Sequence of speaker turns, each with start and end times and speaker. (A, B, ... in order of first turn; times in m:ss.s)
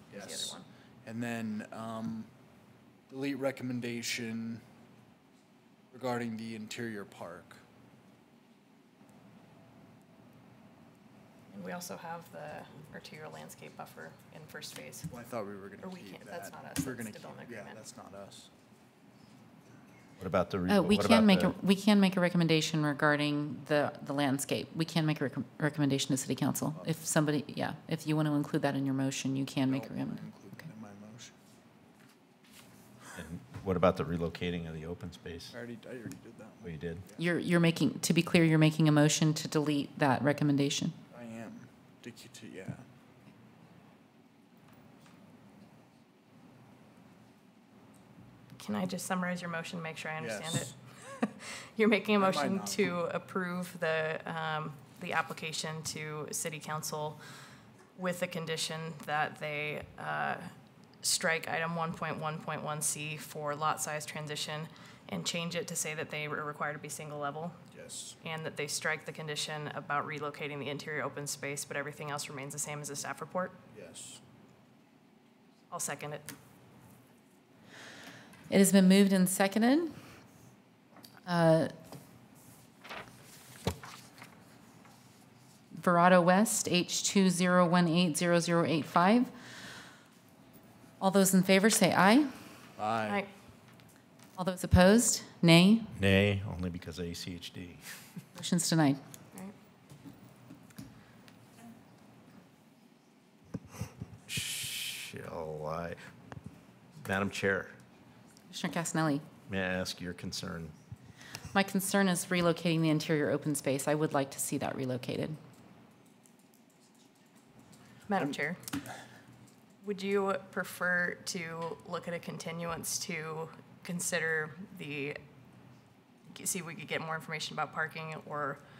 0:00.1-0:00.6 A
0:00.1-0:02.3 B
0:03.1-0:04.6 B
0:05.9-0:07.6 B
0:11.5-0:15.1 A
0:15.1-0:18.5 B
0:15.8-0:17.8 A
0:20.2-0:21.5 C
0:20.7-0:30.3 D
0:29.6-0:31.4 B
0:33.2-0:35.5 C
0:35.5-0:37.2 B
0:36.6-0:37.0 C
0:37.2-0:41.0 D
0:41.1-0:42.9 B
0:48.6-0:57.2 A
0:50.2-0:50.7 B
0:52.2-0:52.9 B
0:58.0-1:00.5 A
1:01.0-1:07.6 A
1:07.7-1:08.2 B
1:08.2-1:13.6 A
1:13.7-1:14.2 B
1:15.7-1:16.3 A
1:18.5-1:19.9 D
1:21.3-1:21.7 D
1:25.7-1:29.3 D
1:31.0-1:32.3 D
1:32.8-1:33.3 B
1:34.4-1:35.9 D
1:36.0-1:37.9 C
1:38.4-1:39.0 D
1:44.3-1:46.0 C
1:47.0-1:47.8 C
1:48.5-1:49.2 D
1:49.5-1:50.7 C
1:51.5-1:55.4 D
1:58.1-1:58.6 A
1:59.8-2:05.2 A
2:06.3-2:08.6 A